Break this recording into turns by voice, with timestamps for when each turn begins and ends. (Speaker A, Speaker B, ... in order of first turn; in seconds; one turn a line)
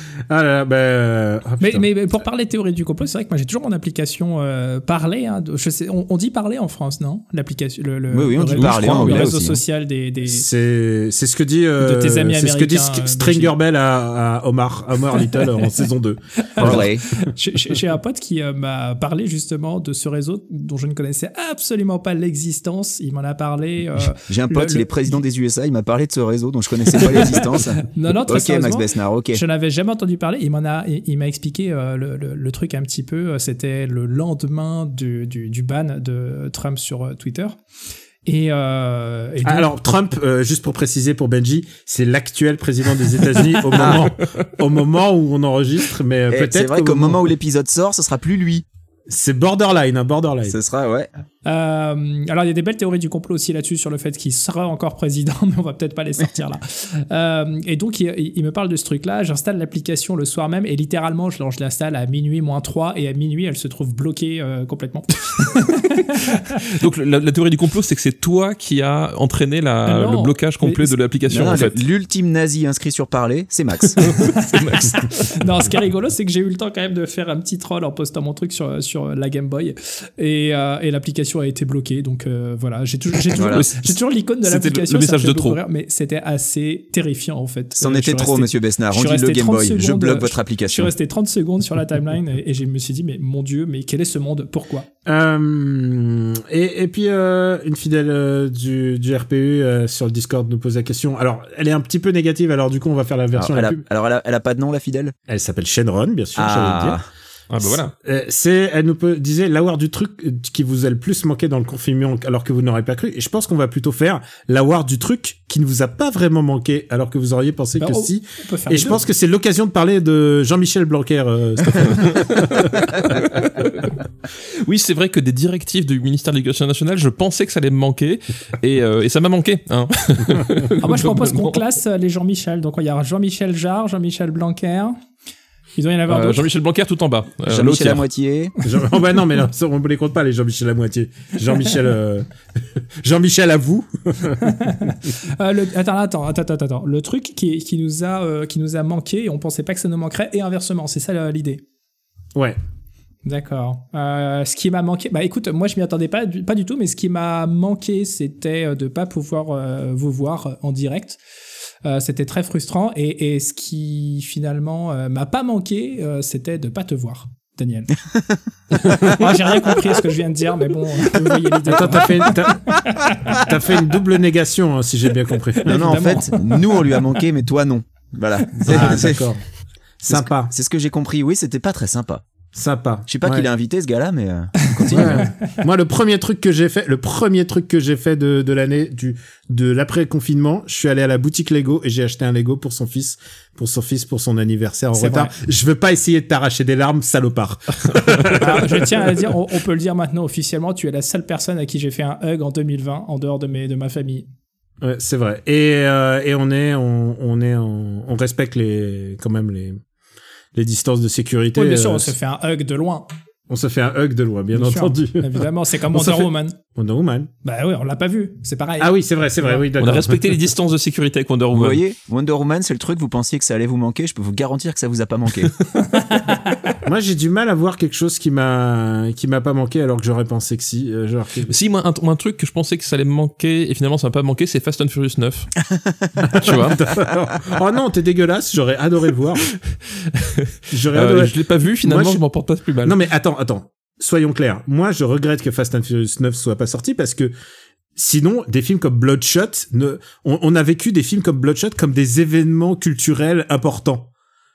Speaker A: 0.3-1.9
Speaker B: 1.6-10.5
Speaker C: 8.1-9.6
Speaker D: 8.6-9.3
Speaker A: 10.2-16.9
Speaker B: 11.8-13.5
Speaker B: 16.5-25.2
Speaker C: 16.6-17.1
Speaker C: 24.3-29.4
Speaker B: 27.0-37.6
Speaker B: 38.2-39.8
Speaker A: 39.4-47.3
Speaker C: 43.7-44.0
Speaker C: 46.3-48.6
Speaker A: 49.1-50.6
Speaker C: 50.5-51.1
Speaker B: 51.5-66.4
Speaker D: 66.7-71.8
Speaker B: 69.9-71.0
Speaker C: 71.3-74.2
Speaker D: 74.0-75.2
Speaker B: 74.2-94.9
Speaker C: 83.4-83.6
Speaker D: 83.5-83.9
Speaker D: 84.4-85.6
Speaker C: 87.8-90.9
Speaker A: 95.1-103.8
Speaker C: 103.3-105.2
Speaker A: 105.3-107.0
Speaker C: 106.4-107.1
Speaker D: 107.5-107.9
Speaker A: 107.6-123.2
Speaker B: 117.8-119.0
Speaker D: 121.9-123.9
Speaker D: 124.7-131.6
Speaker B: 130.8-135.0
Speaker B: 135.8-136.5
Speaker D: 136.1-138.1
Speaker C: 137.5-138.5
Speaker A: 138.6-142.3
Speaker A: 143.0-144.9
Speaker B: 144.4-151.6
Speaker B: 153.2-161.2
Speaker B: 161.8-167.9
Speaker B: 168.8-173.4
Speaker A: 171.7-176.1
Speaker B: 175.6-177.0
Speaker C: 175.7-179.3
Speaker A: 178.6-179.4
Speaker A: 180.0-180.5
Speaker C: 180.1-182.2
Speaker A: 182.5-183.5
Speaker C: 183.1-185.3
Speaker B: 184.9-185.3
Speaker A: 184.9-199.3
Speaker B: 194.9-195.3
Speaker B: 198.3-204.3
Speaker A: 204.8-209.8
Speaker A: 210.5-212.2
Speaker B: 211.6-213.1
Speaker A: 213.5-217.3
Speaker B: 214.5-216.6
Speaker B: 217.4-219.6
Speaker A: 218.8-220.4
Speaker D: 219.8-221.8
Speaker C: 221.5-225.6
Speaker B: 225.9-226.7
Speaker A: 226.8-231.5
Speaker D: 231.5-235.5
Speaker A: 236.2-239.5
Speaker D: 236.4-236.8
Speaker D: 240.2-243.0
Speaker A: 240.7-242.2
Speaker A: 242.8-247.3
Speaker A: 247.9-254.1